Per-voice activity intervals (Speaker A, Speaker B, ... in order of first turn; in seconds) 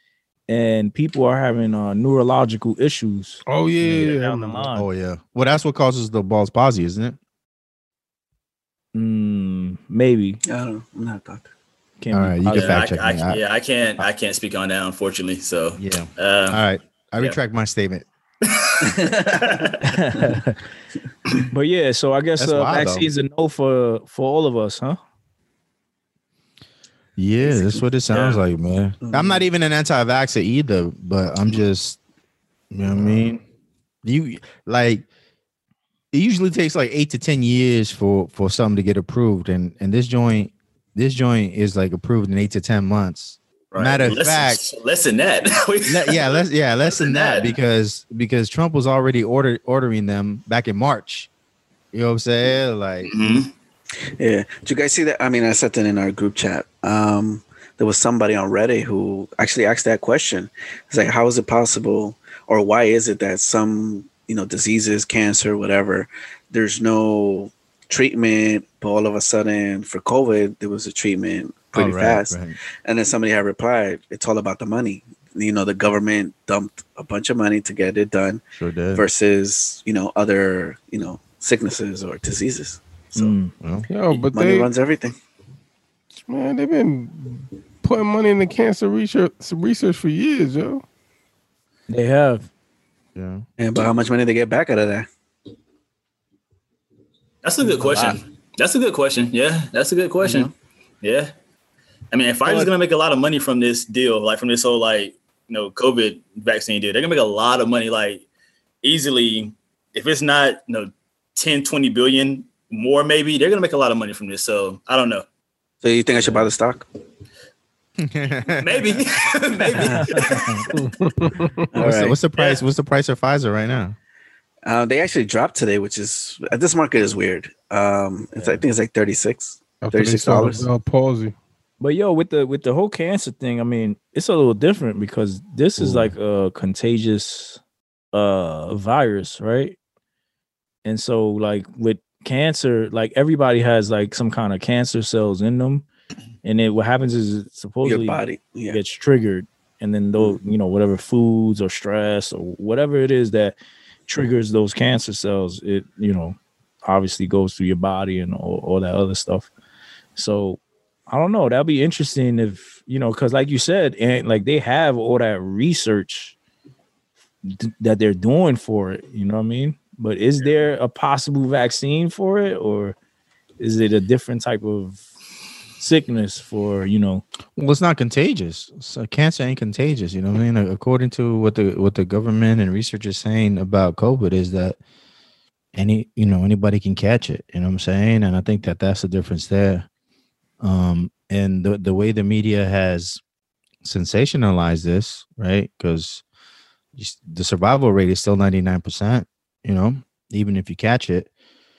Speaker A: 0.5-4.8, 8.9-10.4, 12.0-12.9, 19.8-20.6, 21.5-25.0, 83.1-83.5, 91.9-92.5, 97.8-98.2, 102.4-102.7, 119.8-120.7, 121.7-122.2, 131.8-137.6, 138.1-139.8, 140.8-145.8, 146.4-153.6, 154.1-159.5, 160.2-166.3, 167.4-172.9, 173.6-175.1, 175.8-177.2
Speaker B: 3.5-4.7, 83.9-84.7, 86.3-90.8, 120.8-121.5, 129.8-131.3
Speaker C: 3.8-4.1, 4.7-7.2, 12.1-13.4, 15.8-18.0, 22.4-23.1, 27.2-32.0, 32.7-33.4, 34.0-35.0, 36.1-44.6, 45.9-51.3, 51.9-53.4, 71.7-72.6, 78.6-79.0, 83.6-83.9, 93.1-93.4, 118.0-119.0, 121.8-124.0, 135.8-136.1, 177.6-184.8, 185.7-189.8, 190.6-193.2, 193.8-196.2, 196.9-201.3
Speaker D: 10.4-11.5, 18.9-19.6, 29.0-29.4, 54.2-78.4, 78.9-83.3, 84.1-85.1, 93.6-95.1, 100.2-100.5, 115.8-116.8, 119.8-120.1, 121.8-122.1, 124.6-130.7, 147.8-148.8
Speaker E: 12.5-16.6, 18.4-19.8, 28.1-28.4, 43.7-46.4, 46.9-47.5, 53.0-53.5, 97.4-100.5, 101.0-101.3, 102.1-108.2, 108.8-115.2, 118.6-120.7, 122.4-122.6